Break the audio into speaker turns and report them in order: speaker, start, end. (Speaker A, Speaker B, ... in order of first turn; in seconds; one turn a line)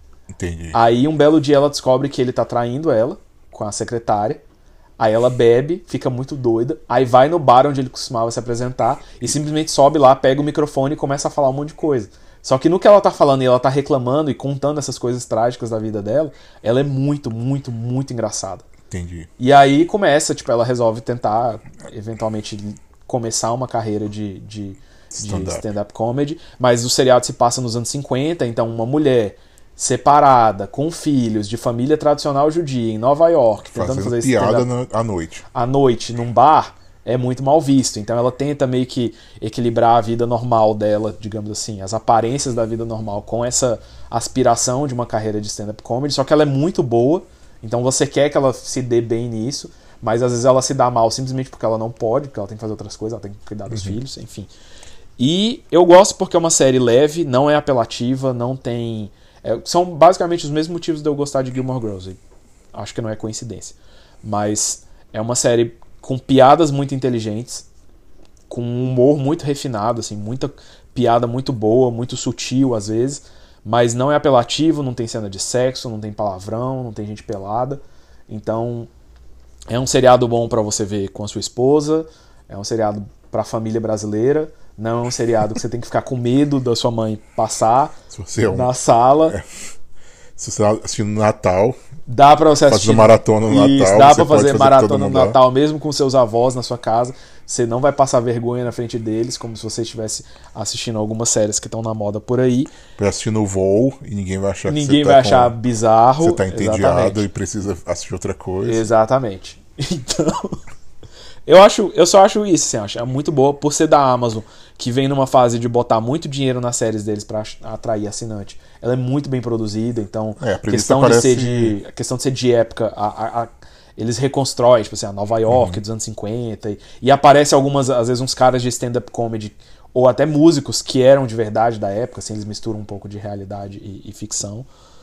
Speaker A: 0.3-0.8
Speaker B: 0.7-4.4
Speaker B: 5.0-18.6
Speaker A: 18.9-19.3
Speaker B: 19.4-34.7
Speaker A: 25.1-25.7
Speaker A: 33.7-35.4
Speaker B: 35.5-54.5
Speaker A: 53.7-54.0
Speaker B: 55.2-62.2
Speaker B: 62.7-67.6
Speaker B: 68.5-78.9
Speaker B: 79.7-88.0
Speaker A: 88.1-88.7
Speaker B: 88.5-89.4
Speaker A: 90.4-91.8
Speaker B: 92.1-102.7
Speaker A: 92.7-95.4
Speaker A: 103.0-105.6
Speaker B: 104.7-107.2
Speaker A: 106.2-108.9
Speaker B: 108.7-110.6
Speaker B: 111.5-134.7
Speaker A: 120.4-121.8
Speaker A: 125.5-125.8